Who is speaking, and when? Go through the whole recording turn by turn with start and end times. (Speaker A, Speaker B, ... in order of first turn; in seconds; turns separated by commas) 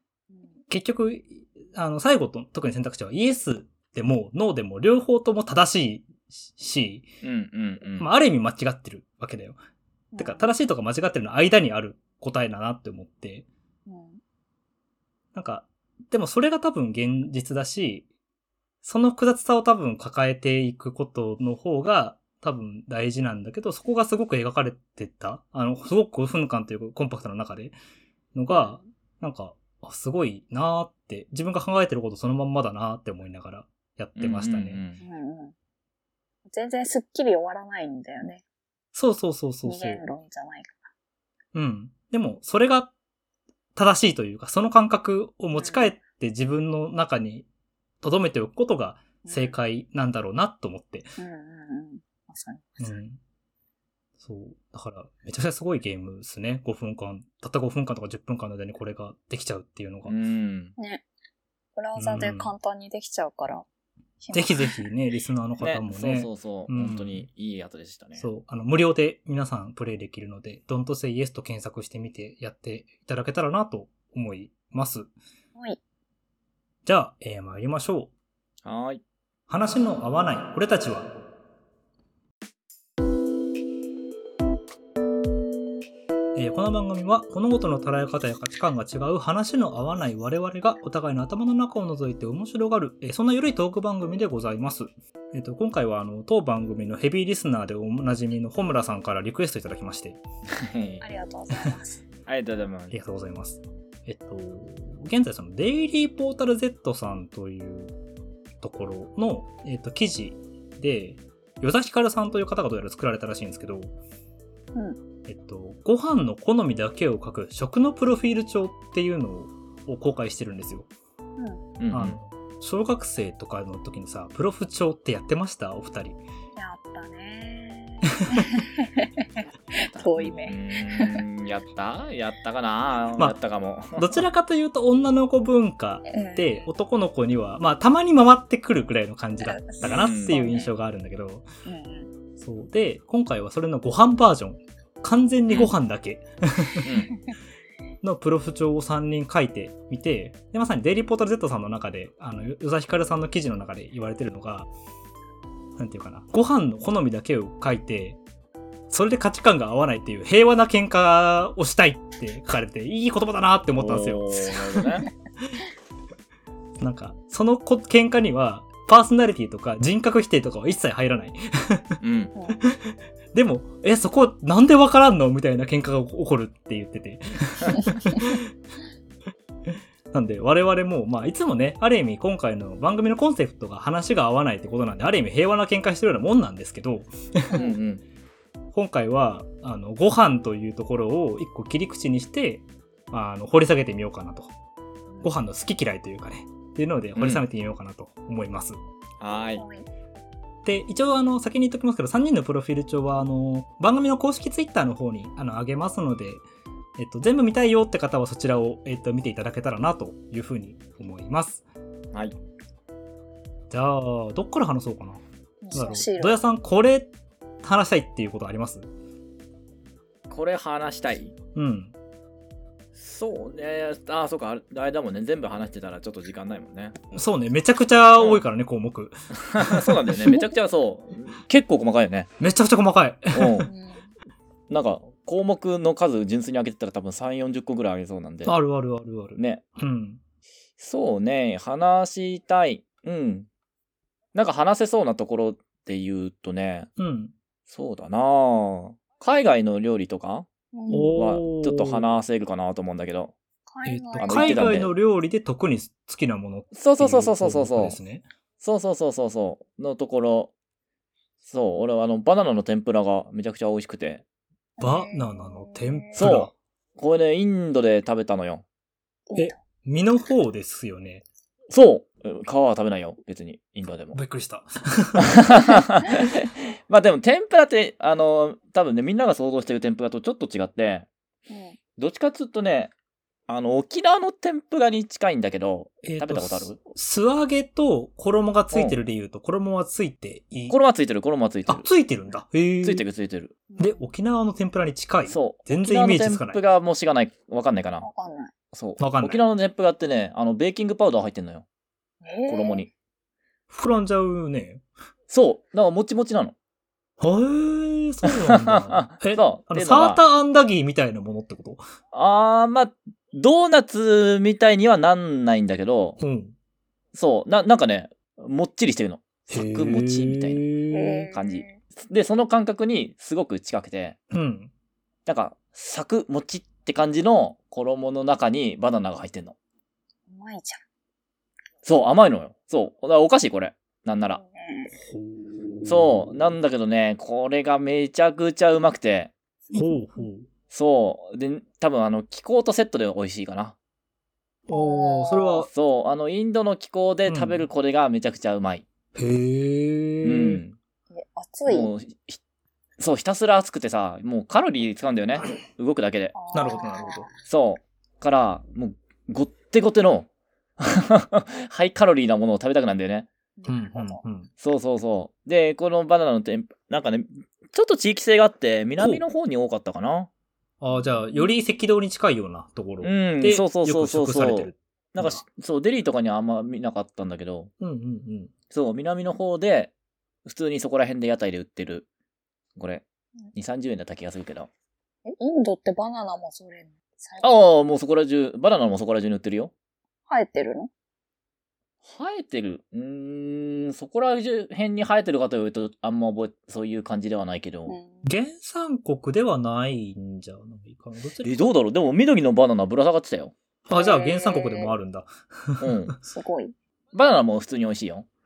Speaker A: 0.7-7.1, Speaker B: 7.2-8.1, Speaker A: 8.0-9.6, Speaker C: 10.1-10.5, Speaker A: 10.2-13.4, Speaker C: 13.9-14.2, Speaker A: 15.3-18.1, Speaker A: 18.8-27.7, Speaker A: 28.3-34.8, Speaker C: 28.5-28.9, Speaker B: 34.2-35.0, Speaker C: 35.0-35.5, Speaker C: 36.5-38.4, Speaker A: 38.9-40.0, Speaker C: 39.6-40.9, Speaker A: 41.5-42.9, Speaker A: 43.8-47.5, Speaker C: 45.5-45.9, Speaker A: 48.0-51.1, Speaker C: 49.2-49.5, Speaker C: 51.2-53.0, Speaker A: 52.8-53.2, Speaker A: 54.2-60.1, Speaker B: 60.1-60.7, Speaker C: 60.8-61.0, Speaker C: 61.8-63.6, Speaker A: 62.0-62.5, Speaker C: 64.2-64.8, Speaker A: 64.3-67.3, Speaker B: 65.6-68.3, Speaker A: 68.2-75.1, Speaker A: 76.8-78.1, Speaker B: 78.6-79.0, Speaker A: 79.5-81.2, Speaker A: 86.3-100.2, Speaker B: 100.5-101.0, Speaker C: 101.0-102.0, Speaker B: 102.3-102.9, Speaker A: 102.9-107.9, Speaker A: 108.6-113.9, Speaker A: 115.3-120.9, Speaker B: 121.8-122.2, Speaker A: 121.9-126.2, Speaker C: 126.5-131.2, Speaker B: 130.1-134.2, Speaker A: 134.0-141.4, Speaker C: 136.1-136.6, Speaker C: 139.4-140.7, Speaker B: 139.8-140.4, Speaker C: 141.6-142.1, Speaker A: 142.4-146.9, Speaker B: 146.8-147.2, Speaker A: 148.0-154.7, Speaker A: 155.8-158.2, Speaker A: 158.9-164.9, Speaker B: 163.8-165.1, Speaker A: 166.8-172.0, Speaker B: 172.0-172.3, Speaker C: 172.3-172.6, Speaker A: 172.6-178.5, Speaker C: 177.7-178.2, Speaker A: 179.7-187.6, Speaker C: 187.5-187.8, Speaker B: 187.5-188.0, Speaker A: 188.7-194.5, Speaker A: 195.2-198.8, Speaker B: 197.2-197.4, Speaker B: 199.2-199.6, Speaker C: 199.6-199.8, Speaker A: 200.6-206.4, Speaker A: 207.0-211.6, Speaker A: 213.7-215.2, Speaker C: 215.6-216.4, Speaker A: 215.7-217.1, Speaker A: 217.6-218.8, Speaker B: 220.3-221.3, Speaker A: 221.5-221.9, Speaker B: 222.9-227.0, Speaker A: 227.1-230.1, Speaker B: 228.2-228.4, Speaker B: 229.4-232.3, Speaker A: 232.4-233.7, Speaker B: 233.3-233.7, Speaker C: 233.7-234.1, Speaker B: 234.7-238.5, Speaker A: 238.4-240.2, Speaker B: 239.3-239.6, Speaker B: 240.8-243.5, Speaker B: 244.3-246.9, Speaker A: 247.0-247.3, Speaker B: 247.7-250.5, Speaker C: 250.7-251.2, Speaker A: 250.9-252.2, Speaker B: 251.2-253.3, Speaker C: 253.7-254.7, Speaker A: 253.8-258.2, Speaker B: 254.2-254.9, Speaker B: 256.7-258.0, Speaker B: 258.6-260.5, Speaker B: 261.4-264.2, Speaker C: 264.8-266.3, Speaker A: 264.8-266.5, Speaker B: 266.2-268.6, Speaker C: 269.3-269.6, Speaker A: 269.4-271.2, Speaker B: 271.7-274.2, Speaker A: 274.1-275.4, Speaker B: 275.2-281.1, Speaker C: 281.5-281.8, Speaker B: 282.0-282.9, Speaker B: 283.5-286.8, Speaker A: 286.0-290.8, Speaker B: 288.7-289.0, Speaker B: 290.7-291.9, Speaker A: 291.7-293.0, Speaker B: 292.8-293.6, Speaker C: 293.7-294.1, Speaker A: 293.8-296.6, Speaker B: 295.3-298.1, Speaker C: 298.0-298.5, Speaker B: 298.7-301.6, Speaker A: 299.0-299.4, Speaker C: 302.2-302.9, Speaker B: 302.5-302.9, Speaker A: 303.7-304.8, Speaker B: 305.3-306.5, Speaker A: 307.2-311.8, Speaker B: 308.3-310.2, Speaker B: 312.1-316.2, Speaker A: 316.2-316.5, Speaker B: 317.1-320.6, Speaker A: 319.5-321.3, Speaker C: 320.9-321.8, Speaker B: 321.3-324.2, Speaker A: 324.3-324.7, Speaker B: 325.3-329.6, Speaker C: 330.3-330.8, Speaker B: 331.8-334.4, Speaker C: 334.3-334.9, Speaker A: 335.0-336.4, Speaker B: 335.8-339.3, Speaker A: 339.7-340.5, Speaker C: 339.7-340.3, Speaker B: 340.7-343.8, Speaker A: 344.7-345.7, Speaker C: 344.7-345.6, Speaker B: 345.7-348.9, Speaker A: 347.2-347.7, Speaker A: 349.1-350.6, Speaker B: 350.2-350.8, Speaker C: 351.1-351.9, Speaker B: 351.7-352.4, Speaker B: 353.0-356.3, Speaker C: 356.3-357.3, Speaker A: 356.5-357.3, Speaker B: 357.4-360.3, Speaker B: 360.8-363.3, Speaker C: 363.6-364.2, Speaker A: 363.7-364.5, Speaker B: 364.6-370.3, Speaker A: 369.0-369.2, Speaker A: 370.8-375.4, Speaker C: 370.9-371.5, Speaker B: 373.0-377.7, Speaker A: 377.8-378.5, Speaker B: 378.7-379.9, Speaker B: 380.4-382.1, Speaker B: 382.8-384.7, Speaker C: 385.2-387.5, Speaker B: 387.4-389.7, Speaker C: 390.3-390.9, Speaker B: 392.0-398.0, Speaker C: 397.9-398.2, Speaker A: 398.2-401.5, Speaker B: 401.4-403.5, Speaker A: 403.9-406.1, Speaker C: 403.9-404.9, Speaker B: 405.8-406.1, Speaker C: 406.2-406.7, Speaker B: 407.1-408.2